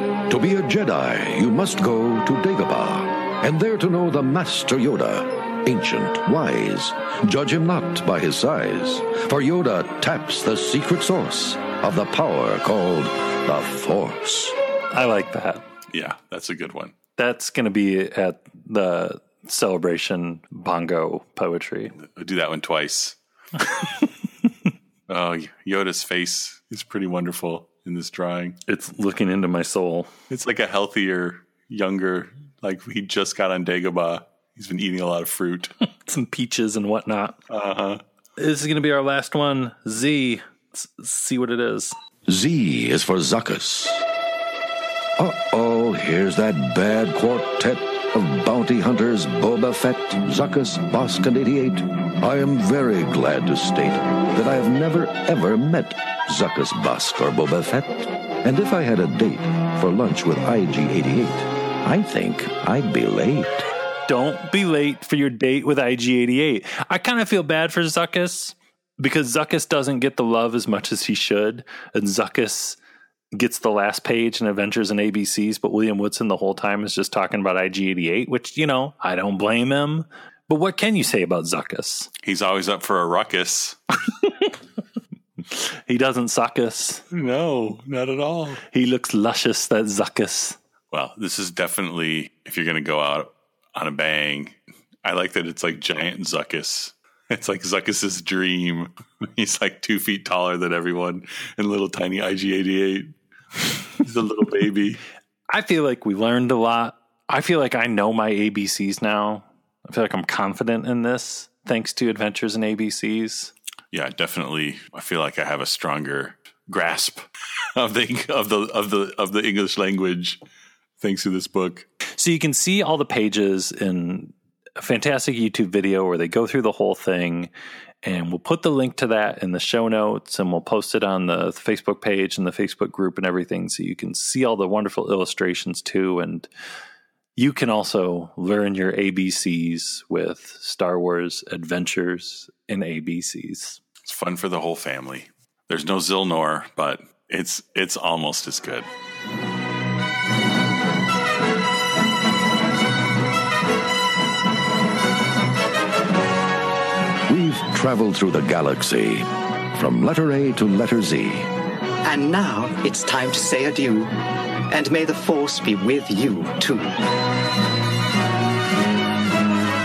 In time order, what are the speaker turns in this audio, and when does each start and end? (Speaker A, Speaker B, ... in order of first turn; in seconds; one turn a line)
Speaker A: 0.3-14.6
Speaker B: 14.9-15.6
Speaker C: 15.9-17.0
Speaker B: 17.2-21.9
Speaker C: 22.1-23.2
Speaker C: 25.1-28.6
Speaker B: 28.7-30.1
Speaker C: 30.3-35.7
Speaker B: 36.0-37.4
Speaker C: 37.5-38.0
Speaker B: 38.4-42.0
Speaker A: 42.3-44.0
Speaker A: 45.2-63.7
Speaker B: 64.1-72.8
Speaker B: 73.3-82.1
Speaker C: 82.2-83.8
Speaker B: 85.5-87.0
Speaker C: 87.1-88.6
Speaker B: 88.7-90.6
Speaker C: 90.9-103.1
Speaker C: 104.0-105.0
Speaker B: 105.5-113.5
Speaker C: 113.9-120.4
Speaker C: 121.0-121.9
Speaker B: 122.2-127.5
Speaker B: 128.0-136.5
Speaker B: 137.4-143.8
Speaker C: 144.0-148.9
Speaker A: 157.3-161.5
Speaker D: 162.0-167.0